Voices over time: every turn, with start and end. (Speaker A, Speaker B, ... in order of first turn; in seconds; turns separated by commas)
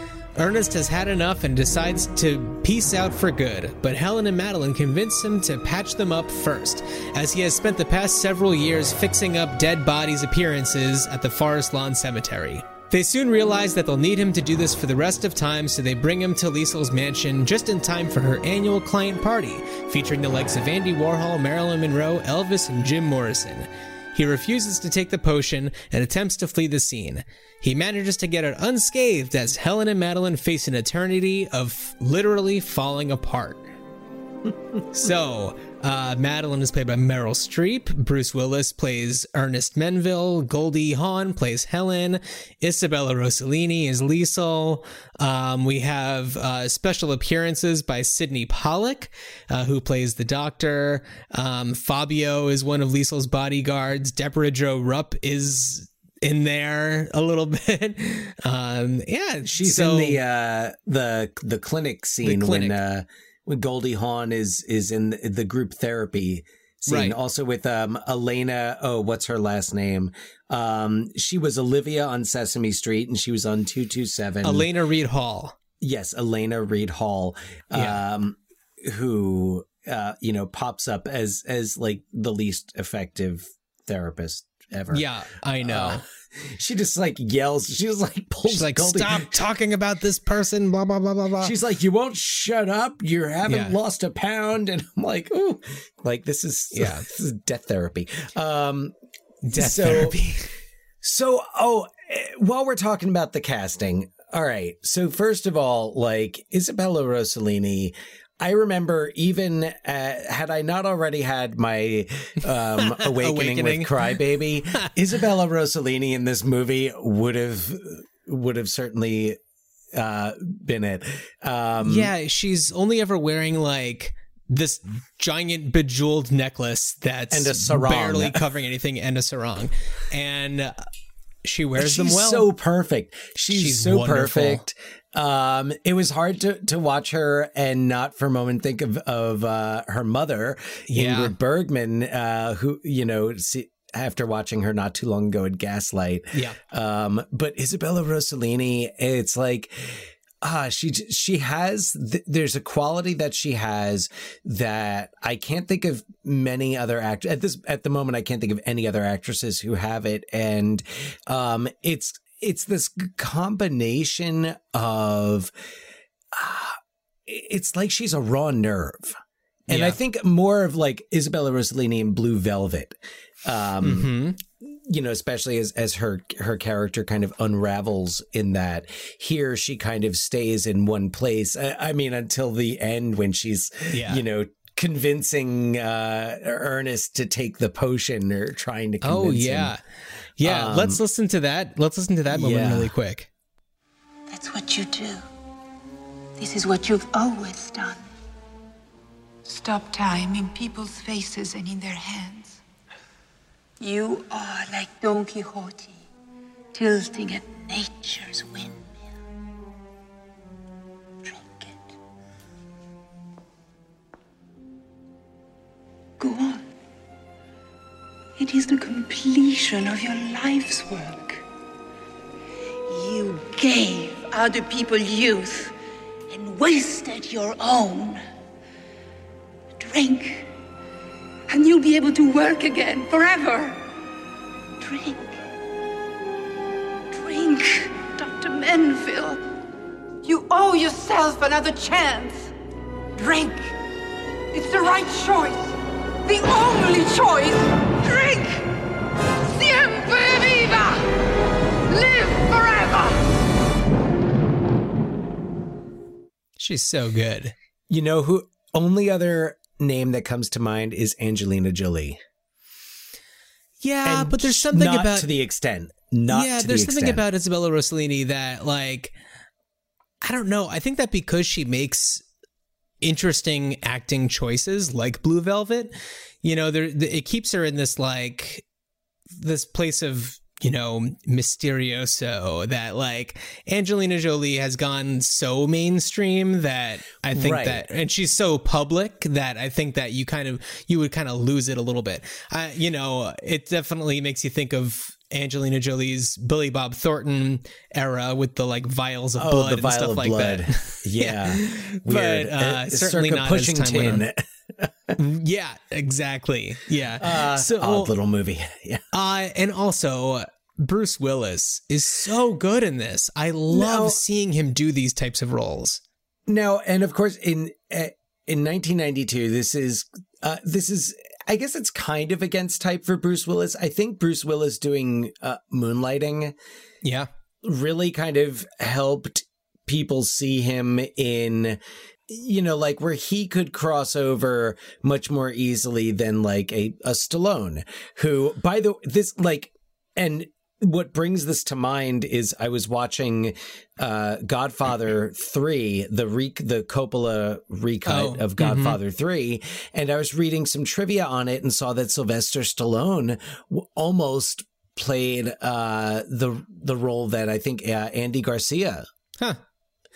Speaker A: 0.3-33.7, Speaker A: 34.9-60.2, Speaker B: 59.5-74.7, Speaker A: 62.2-62.8, Speaker A: 66.9-67.2, Speaker A: 74.4-75.5, Speaker B: 75.8-85.1, Speaker A: 77.7-78.0, Speaker A: 84.9-86.0, Speaker B: 85.6-89.3, Speaker A: 88.5-91.5, Speaker B: 91.4-98.9, Speaker A: 93.5-93.8, Speaker A: 96.7-97.1, Speaker A: 99.4-100.5, Speaker B: 99.5-100.2, Speaker B: 101.0-119.4, Speaker A: 112.8-113.9, Speaker B: 119.9-122.1, Speaker A: 121.8-130.7, Speaker B: 127.3-128.4, Speaker A: 131.4-132.5, Speaker B: 131.8-165.5, Speaker A: 133.5-134.6, Speaker A: 140.9-141.3, Speaker B: 166.3-189.7, Speaker A: 169.7-170.0, Speaker A: 173.8-174.4, Speaker A: 183.9-184.2, Speaker A: 189.0-189.8, Speaker A: 190.4-193.3, Speaker B: 190.4-191.0, Speaker B: 192.3-192.9, Speaker C: 194.3-195.2, Speaker C: 196.4-198.0, Speaker C: 199.4-202.6, Speaker C: 203.8-206.0, Speaker C: 206.7-208.9, Speaker C: 211.2-211.8, Speaker C: 216.2-216.7, Speaker C: 218.4-221.4, Speaker C: 222.9-225.7, Speaker C: 226.3-228.2, Speaker C: 229.8-230.5, Speaker C: 231.5-233.8, Speaker C: 234.8-235.3, Speaker C: 237.1-239.4, Speaker C: 240.2-242.5, Speaker C: 243.2-243.7, Speaker C: 244.5-248.7, Speaker C: 249.4-251.1, Speaker C: 251.9-253.3, Speaker A: 256.6-257.5, Speaker B: 257.9-262.2, Speaker A: 263.8-265.3, Speaker B: 264.0-267.2, Speaker A: 266.3-269.1, Speaker A: 270.2-272.2, Speaker A: 273.0-278.6, Speaker A: 279.4-304.2, Speaker B: 287.3-287.9, Speaker B: 299.4-305.1, Speaker A: 305.1-308.1, Speaker B: 307.2-309.0, Speaker A: 309.1-316.0, Speaker B: 313.7-314.2, Speaker B: 316.5-326.6, Speaker A: 327.0-327.3, Speaker B: 327.6-359.1, Speaker A: 348.1-349.0